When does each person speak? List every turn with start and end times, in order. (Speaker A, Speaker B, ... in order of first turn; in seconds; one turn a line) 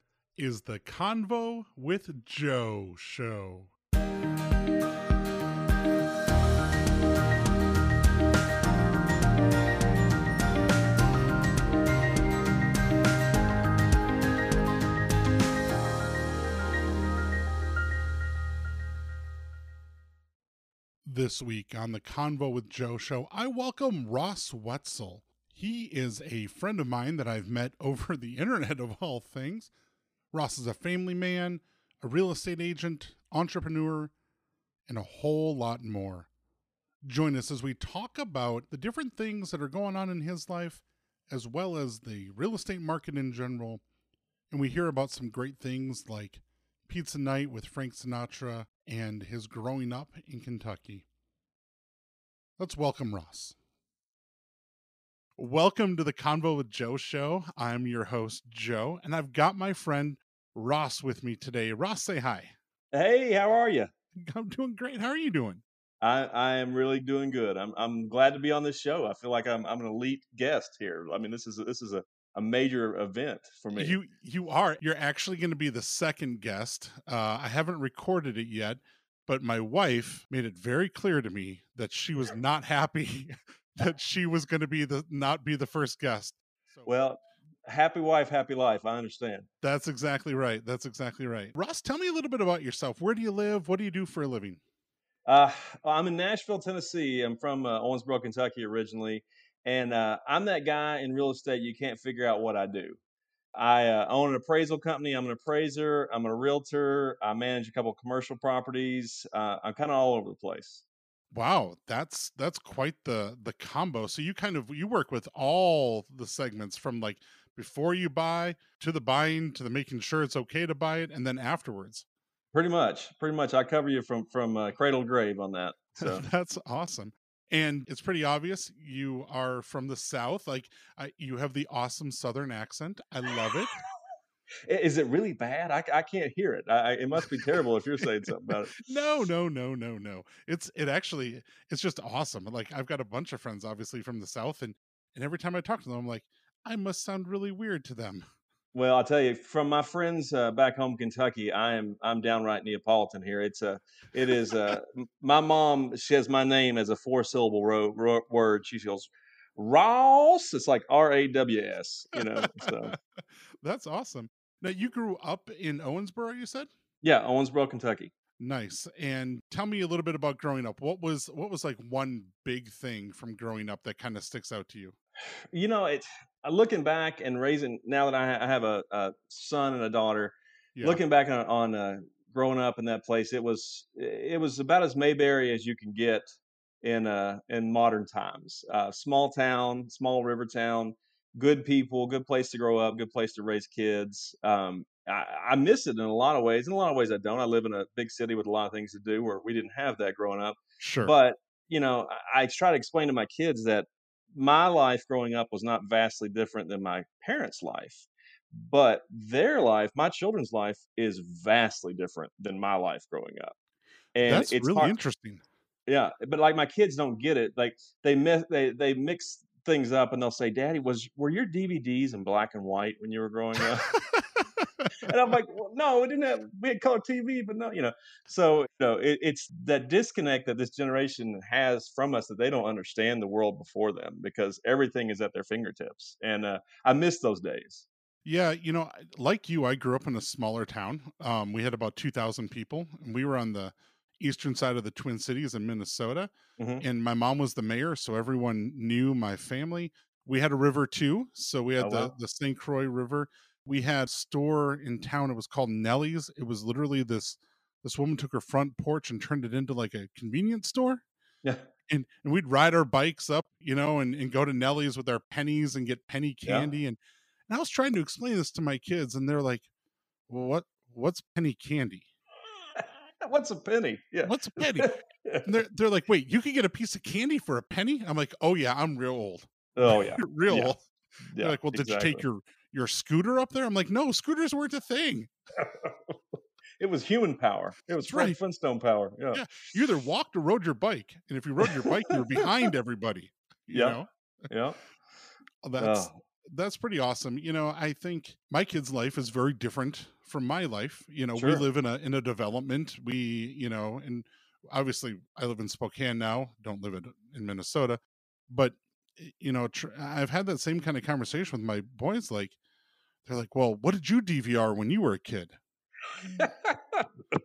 Speaker A: 0.4-3.7
Speaker A: 21.1-29.7
Speaker A: 30.3-34.1
Speaker A: 34.9-36.3
Speaker A: 37.0-43.8
Speaker A: 44.5-51.1
Speaker A: 52.6-53.6
Speaker A: 55.4-62.5
Speaker B: 62.9-63.9
Speaker A: 64.2-65.6
Speaker B: 66.0-74.0
Speaker A: 73.7-86.9
Speaker B: 86.9-89.5
Speaker A: 89.6-94.6
Speaker B: 95.3-103.0
Speaker B: 103.5-110.8
Speaker A: 111.3-122.1
Speaker B: 122.5-126.2
Speaker A: 126.0-133.8
Speaker B: 134.7-138.7
Speaker A: 138.8-148.2
Speaker B: 148.7-162.9
Speaker A: 162.2-163.0
Speaker A: 163.6-166.7
Speaker B: 167.0-168.1
Speaker A: 168.4-175.0
Speaker B: 175.5-186.3
Speaker B: 186.8-213.5
Speaker A: 200.8-201.1
Speaker B: 214.2-214.9
Speaker A: 214.2-215.4
Speaker B: 215.9-223.9
Speaker A: 223.9-224.2
Speaker A: 224.8-225.1
Speaker B: 225.0-237.9
Speaker A: 238.2-261.0
Speaker B: 246.6-246.8
Speaker B: 251.8-252.1
Speaker A: 261.9-267.0
Speaker A: 267.5-269.7
Speaker A: 270.3-272.1
Speaker B: 272.8-275.5
Speaker A: 274.2-280.9
Speaker B: 279.8-280.8
Speaker B: 281.3-282.2
Speaker A: 281.4-285.3
Speaker B: 285.6-289.5
Speaker A: 288.0-288.4
Speaker A: 289.3-294.5
Speaker B: 291.6-292.4
Speaker B: 293.7-294.0
Speaker B: 294.5-294.8
Speaker A: 295.6-308.0
Speaker B: 295.8-296.1
Speaker B: 301.4-301.6
Speaker A: 308.5-312.6
Speaker A: 313.2-315.6
Speaker B: 316.2-317.1